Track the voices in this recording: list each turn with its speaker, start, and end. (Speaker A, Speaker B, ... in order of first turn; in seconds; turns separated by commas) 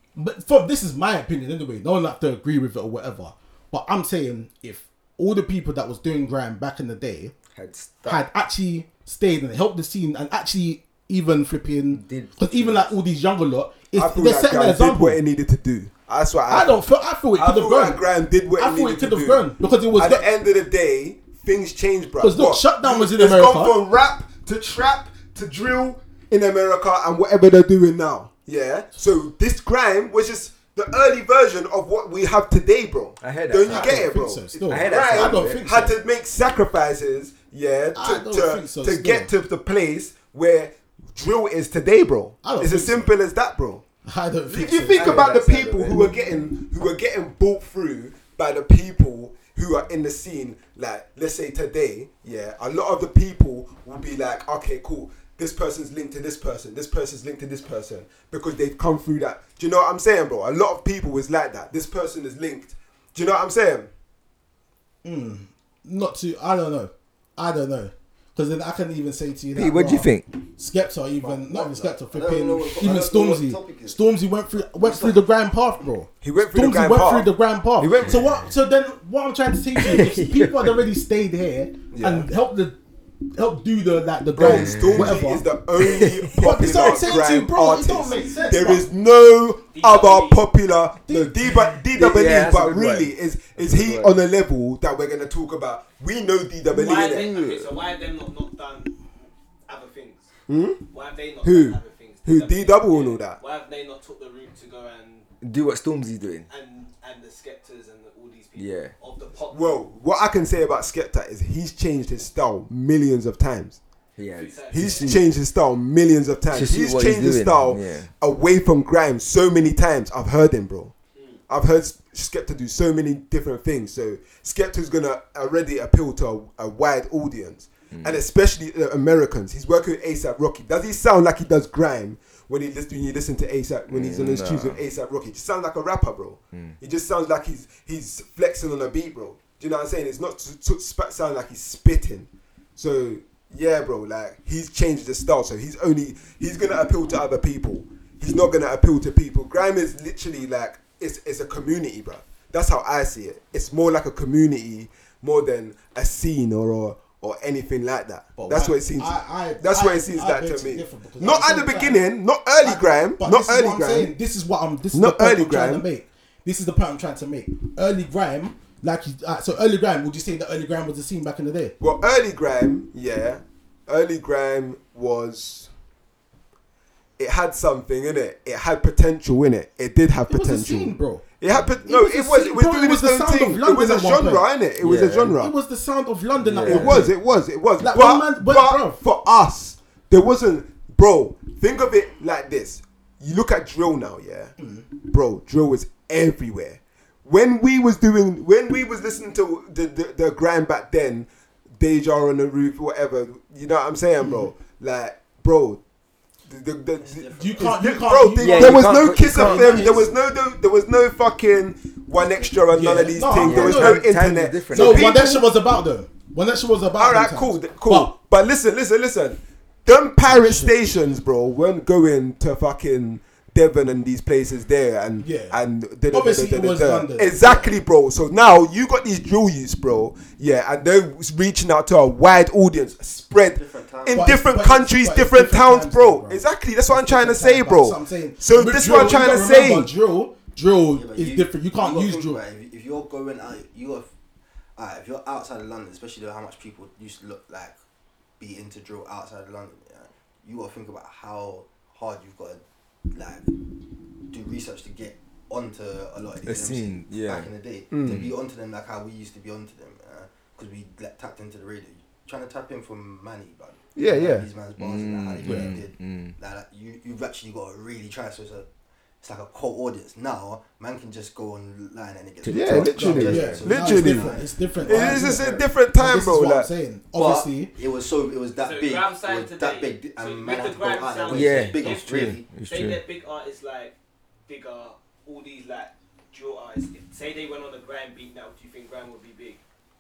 Speaker A: 0.2-7.3, Speaker B: 7.5-8.2, Speaker A: 8.1-15.2, Speaker B: 11.9-12.9, Speaker C: 13.9-16.8, Speaker A: 16.5-18.0, Speaker C: 17.4-43.8, Speaker A: 18.6-20.2, Speaker A: 22.2-23.8, Speaker B: 33.2-34.1, Speaker A: 33.6-36.0, Speaker B: 34.7-35.6, Speaker A: 38.0-39.3, Speaker A: 42.4-43.1, Speaker A: 44.0-45.4, Speaker C: 44.5-63.9, Speaker B: 45.0-45.8, Speaker D: 45.2-45.9, Speaker A: 65.0-82.8, Speaker B: 69.5-70.3, Speaker D: 71.2-74.0, Speaker D: 74.7-75.2, Speaker C: 76.2-78.3, Speaker B: 79.8-80.8, Speaker C: 81.9-82.3, Speaker A: 83.3-85.5, Speaker C: 84.4-97.3, Speaker B: 84.4-85.2, Speaker B: 85.8-86.7, Speaker A: 86.4-88.8, Speaker E: 89.7-90.4, Speaker A: 91.1-91.5, Speaker B: 91.9-94.2, Speaker E: 96.7-100.3, Speaker B: 97.0-97.7, Speaker C: 100.5-100.8, Speaker E: 100.9-105.3, Speaker C: 101.4-103.4, Speaker B: 105.4-106.5, Speaker E: 106.5-109.8, Speaker B: 108.6-108.9, Speaker C: 109.5-113.8, Speaker B: 114.2-115.2, Speaker E: 114.3-115.3, Speaker C: 114.7-120.9, Speaker B: 116.5-118.1, Speaker C: 121.5-164.1, Speaker B: 127.9-128.2, Speaker B: 133.9-134.8, Speaker A: 158.4-162.0, Speaker A: 162.6-171.8, Speaker C: 164.9-165.8, Speaker C: 171.8-175.7, Speaker C: 177.2-185.5, Speaker A: 180.3-181.2, Speaker A: 181.8-184.5, Speaker B: 184.8-185.4, Speaker A: 185.3-187.2, Speaker B: 186.4-187.1, Speaker C: 186.6-201.3, Speaker A: 187.8-189.0, Speaker A: 194.6-194.8, Speaker C: 201.8-205.8, Speaker A: 204.2-204.5, Speaker C: 206.5-215.4, Speaker D: 207.1-207.7, Speaker A: 207.4-210.1, Speaker B: 208.4-209.9, Speaker A: 212.7-214.1, Speaker B: 213.4-215.2, Speaker A: 214.7-218.1, Speaker C: 217.0-239.9, Speaker A: 220.3-220.8, Speaker A: 225.2-225.6, Speaker A: 226.1-227.7, Speaker D: 233.6-234.4, Speaker A: 234.1-242.4, Speaker D: 240.9-244.1, Speaker D: 244.8-247.8, Speaker D: 248.4-252.6, Speaker D: 253.1-253.5, Speaker D: 254.3-268.7, Speaker B: 256.4-257.5, Speaker C: 257.9-258.3, Speaker C: 263.9-264.5, Speaker B: 264.8-266.4, Speaker A: 265.4-265.8, Speaker D: 269.2-275.6, Speaker C: 272.4-274.4, Speaker B: 272.5-273.6, Speaker A: 272.7-277.7, Speaker C: 274.9-276.7, Speaker D: 277.1-282.5, Speaker E: 278.6-283.9, Speaker B: 281.3-283.0, Speaker E: 284.5-289.6